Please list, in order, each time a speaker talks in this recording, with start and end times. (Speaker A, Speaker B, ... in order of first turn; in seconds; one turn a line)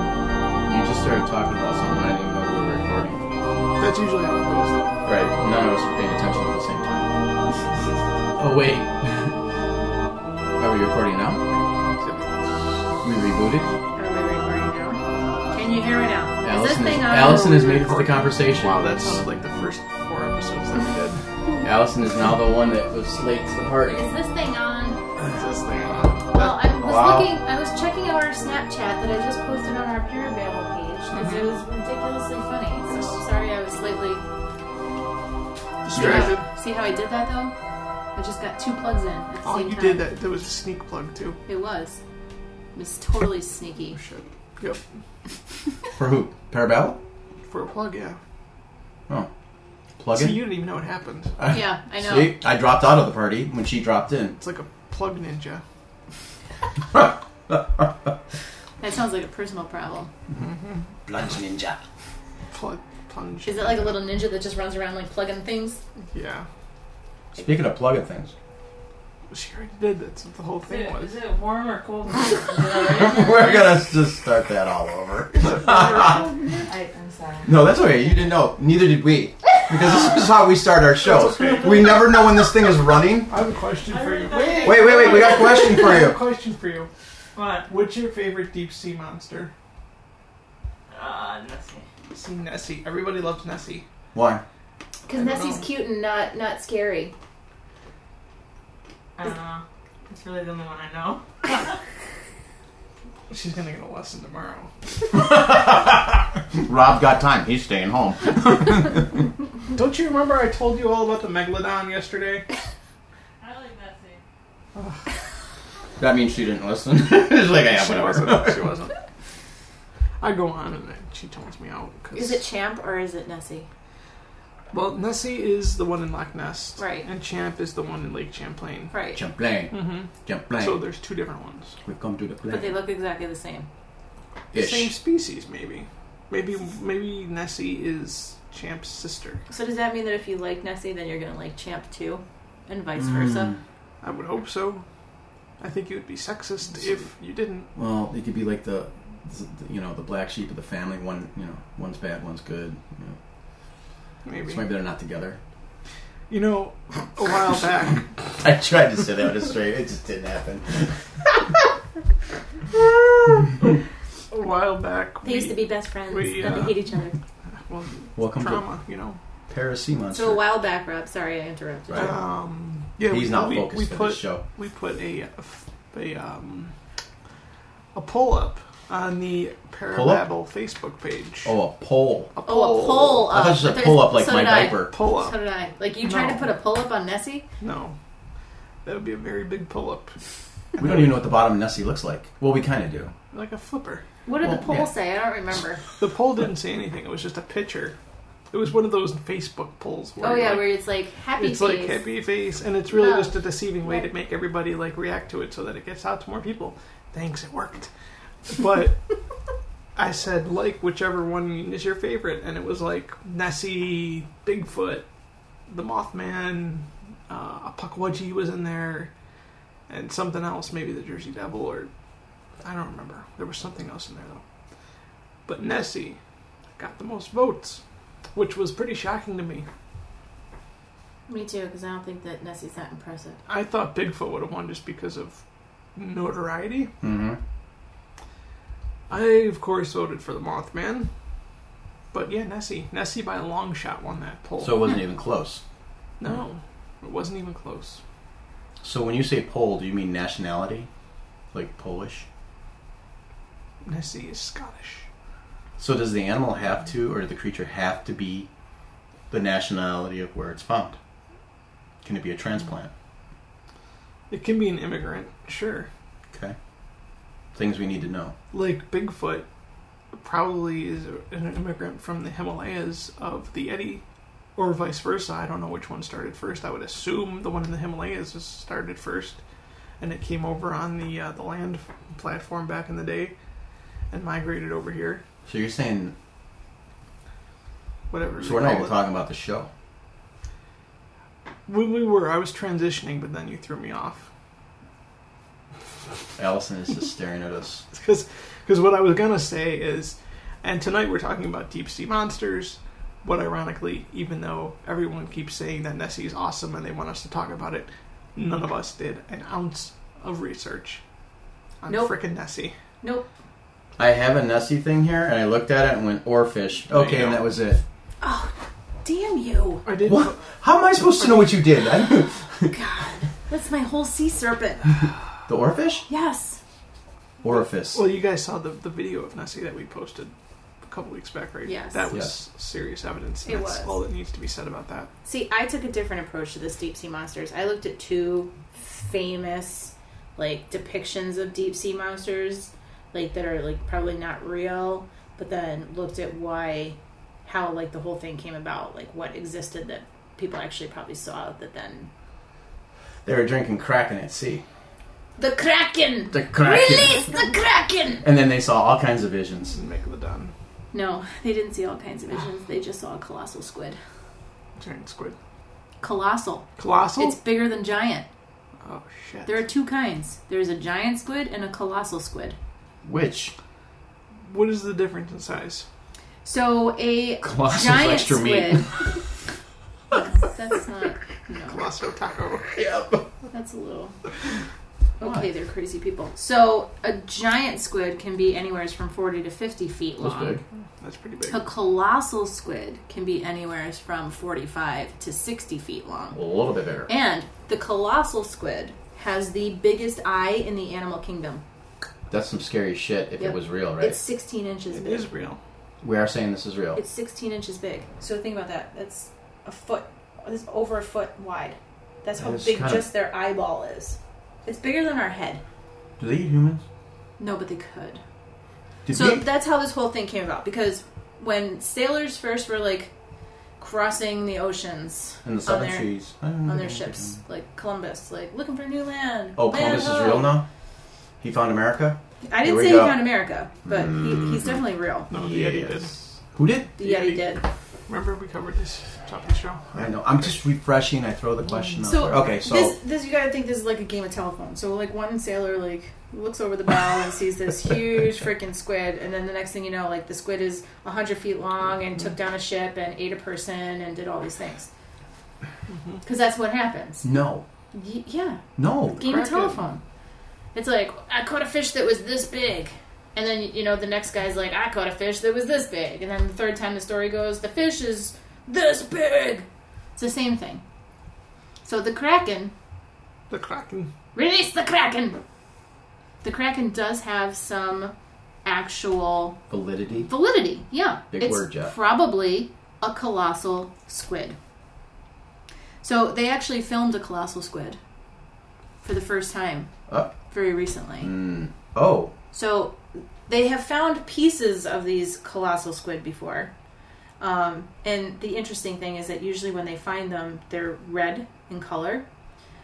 Speaker A: 0.7-3.2
Speaker B: 3.8-4.9
Speaker A: 5.0-7.1
Speaker A: 8.4-9.4
Speaker A: 10.6-11.4
Speaker B: 11.5-12.5
Speaker A: 13.0-13.7
Speaker C: 13.9-15.0
Speaker C: 15.5-17.5
Speaker A: 16.4-19.2
Speaker B: 17.1-21.2
Speaker A: 21.6-24.0
Speaker C: 23.9-25.0
Speaker B: 25.2-26.6
Speaker C: 26.3-34.2
Speaker A: 26.8-27.3
Speaker B: 31.1-31.5
Speaker B: 32.9-33.2
Speaker B: 35.8-36.4
Speaker A: 35.9-36.4
Speaker C: 36.0-37.5
Speaker C: 38.1-40.0
Speaker B: 39.4-41.4
Speaker C: 41.5-42.0
Speaker C: 42.7-44.0
Speaker B: 43.9-44.8
Speaker A: 46.0-47.0
Speaker B: 47.5-48.2
Speaker A: 50.0-50.5
Speaker B: 50.1-51.4
Speaker A: 51.4-54.4
Speaker C: 51.5-52.4
Speaker B: 54.4-55.6
Speaker A: 56.9-58.1
Speaker C: 58.8-60.1
Speaker B: 60.4-60.8
Speaker A: 61.0-61.8
Speaker B: 62.5-64.0
Speaker C: 63.4-65.8
Speaker B: 66.1-66.5
Speaker A: 67.3-68.3
Speaker B: 69.3-71.2
Speaker D: 70.7-73.8
Speaker A: 72.7-76.3
Speaker B: 75.3-76.2
Speaker D: 75.7-77.6
Speaker A: 77.4-83.3
Speaker B: 81.0-82.1
Speaker B: 83.3-86.9
Speaker D: 83.9-85.7
Speaker A: 84.6-86.2
Speaker D: 87.3-87.7
Speaker B: 87.7-89.5
Speaker D: 90.9-91.8
Speaker B: 92.1-93.8
Speaker A: 94.1-94.4
Speaker C: 95.0-97.1
Speaker B: 95.1-95.6
Speaker D: 99.2-101.8
Speaker B: 103.3-104.7
Speaker A: 105.1-109.2
Speaker B: 109.7-112.5
Speaker D: 113.4-114.2
Speaker B: 114.7-115.0
Speaker A: 116.0-118.7
Speaker B: 117.7-119.0
Speaker B: 120.2-122.4
Speaker C: 122.1-123.7
Speaker B: 124.7-128.9
Speaker C: 126.8-127.1
Speaker C: 128.9-129.2
Speaker A: 129.1-130.8
Speaker B: 129.7-131.8
Speaker A: 131.8-132.8
Speaker C: 132.5-133.7
Speaker A: 134.5-134.9
Speaker B: 134.5-139.4
Speaker C: 139.5-143.5
Speaker A: 143.0-143.6
Speaker B: 144.0-144.8
Speaker B: 145.6-147.7
Speaker A: 147.7-153.2
Speaker B: 154.2-154.6
Speaker A: 154.4-155.4
Speaker B: 156.3-158.1
Speaker A: 158.4-161.0
Speaker B: 163.5-163.8
Speaker B: 164.3-166.8
Speaker C: 165.2-167.2
Speaker B: 167.5-169.2
Speaker A: 168.2-168.6
Speaker A: 169.5-170.4
Speaker C: 170.1-172.2
Speaker A: 171.9-172.2
Speaker B: 171.9-176.7
Speaker A: 173.1-174.4
Speaker B: 177.9-181.6
Speaker A: 179.9-180.2
Speaker A: 181.4-182.3
Speaker B: 182.3-183.3
Speaker C: 182.4-187.4
Speaker A: 183.3-184.9
Speaker B: 184.9-185.3
Speaker B: 186.0-186.5
Speaker B: 187.6-187.9
Speaker B: 188.8-190.2
Speaker B: 190.8-191.1
Speaker A: 190.8-193.1
Speaker B: 193.3-194.0
Speaker C: 194.2-195.8
Speaker A: 194.4-194.9
Speaker B: 196.0-197.9
Speaker B: 198.5-200.7
Speaker C: 200.2-202.0
Speaker B: 201.4-207.9
Speaker C: 202.9-204.1
Speaker B: 208.4-209.1
Speaker B: 209.9-215.1
Speaker B: 215.7-219.1
Speaker B: 219.9-221.9
Speaker B: 222.6-224.4
Speaker B: 225.5-226.2
Speaker B: 226.7-227.8
Speaker B: 228.3-229.6
Speaker C: 231.3-233.4
Speaker B: 233.5-235.4
Speaker B: 235.9-236.9
Speaker A: 237.0-237.4
Speaker B: 239.1-241.1
Speaker B: 242.1-244.9
Speaker A: 244.6-245.6
Speaker B: 246.2-248.0
Speaker A: 248.8-250.9
Speaker A: 251.5-252.2
Speaker B: 253.8-255.1
Speaker A: 255.8-258.5
Speaker A: 259.3-260.9
Speaker A: 262.0-262.9
Speaker B: 264.3-265.9
Speaker A: 267.5-268.3
Speaker B: 268.5-269.4
Speaker B: 270.1-274.0
Speaker B: 274.6-279.4
Speaker B: 280.0-283.3
Speaker B: 284.1-285.2
Speaker A: 285.4-286.1
Speaker B: 288.1-289.0
Speaker A: 288.4-289.7
Speaker B: 291.6-294.3
Speaker A: 296.4-297.9
Speaker B: 297.9-311.0
Speaker B: 311.8-312.7
Speaker C: 311.9-312.1
Speaker C: 313.0-313.3
Speaker A: 314.0-317.8
Speaker B: 316.9-317.4
Speaker C: 318.2-318.5
Speaker C: 319.0-319.9
Speaker B: 319.9-320.5
Speaker A: 320.0-322.7
Speaker B: 321.2-321.6
Speaker C: 322.7-325.0
Speaker A: 325.5-326.1
Speaker C: 326.1-326.6
Speaker A: 327.4-328.1
Speaker B: 327.5-335.1
Speaker C: 331.6-332.1
Speaker A: 332.1-332.4
Speaker C: 333.4-333.9
Speaker C: 335.2-352.1
Speaker A: 353.2-354.6
Speaker C: 355.4-358.2
Speaker A: 356.3-357.2
Speaker A: 358.2-359.8
Speaker B: 359.7-360.5
Speaker C: 360.9-364.0
Speaker B: 364.8-365.4
Speaker C: 366.0-368.2
Speaker B: 366.8-367.4
Speaker B: 368.8-369.6
Speaker C: 369.4-372.6
Speaker A: 373.0-373.5
Speaker B: 374.4-375.8
Speaker C: 376.4-379.1
Speaker A: 377.4-379.1
Speaker C: 380.1-381.8
Speaker B: 381.7-382.8
Speaker A: 382.8-383.2
Speaker C: 383.5-384.1
Speaker C: 385.2-390.6
Speaker A: 385.2-385.4
Speaker A: 390.2-390.6
Speaker B: 391.0-391.6
Speaker C: 391.5-396.4
Speaker A: 396.3-397.1
Speaker C: 397.1-401.6
Speaker A: 402.3-404.2
Speaker C: 403.4-405.3
Speaker B: 404.9-405.6
Speaker A: 406.0-407.0
Speaker C: 406.9-415.6
Speaker A: 412.4-413.1
Speaker A: 416.2-416.8
Speaker C: 417.4-418.2
Speaker A: 419.1-419.4
Speaker C: 419.1-423.1
Speaker C: 423.8-426.1
Speaker A: 425.4-427.4
Speaker C: 426.6-430.6
Speaker A: 429.6-430.6
Speaker A: 431.4-433.2
Speaker C: 432.4-435.3
Speaker A: 433.9-436.9
Speaker B: 435.3-436.2
Speaker C: 437.0-437.6
Speaker B: 437.0-440.4
Speaker A: 439.9-442.9
Speaker C: 442.0-454.9
Speaker B: 455.9-456.2
Speaker C: 456.2-457.2
Speaker A: 457.2-457.6
Speaker C: 457.9-460.0
Speaker A: 458.8-459.2
Speaker B: 459.2-459.8
Speaker C: 460.7-470.8
Speaker C: 471.8-472.7
Speaker B: 473.5-474.1
Speaker C: 474.3-475.4
Speaker C: 476.4-478.1
Speaker C: 478.6-479.6
Speaker A: 479.7-480.3
Speaker C: 480.3-484.6
Speaker A: 481.3-481.9
Speaker C: 486.0-488.0
Speaker C: 489.0-489.9
Speaker A: 490.1-490.3
Speaker C: 490.5-491.3
Speaker A: 491.2-492.3
Speaker C: 492.5-496.7
Speaker C: 497.4-502.2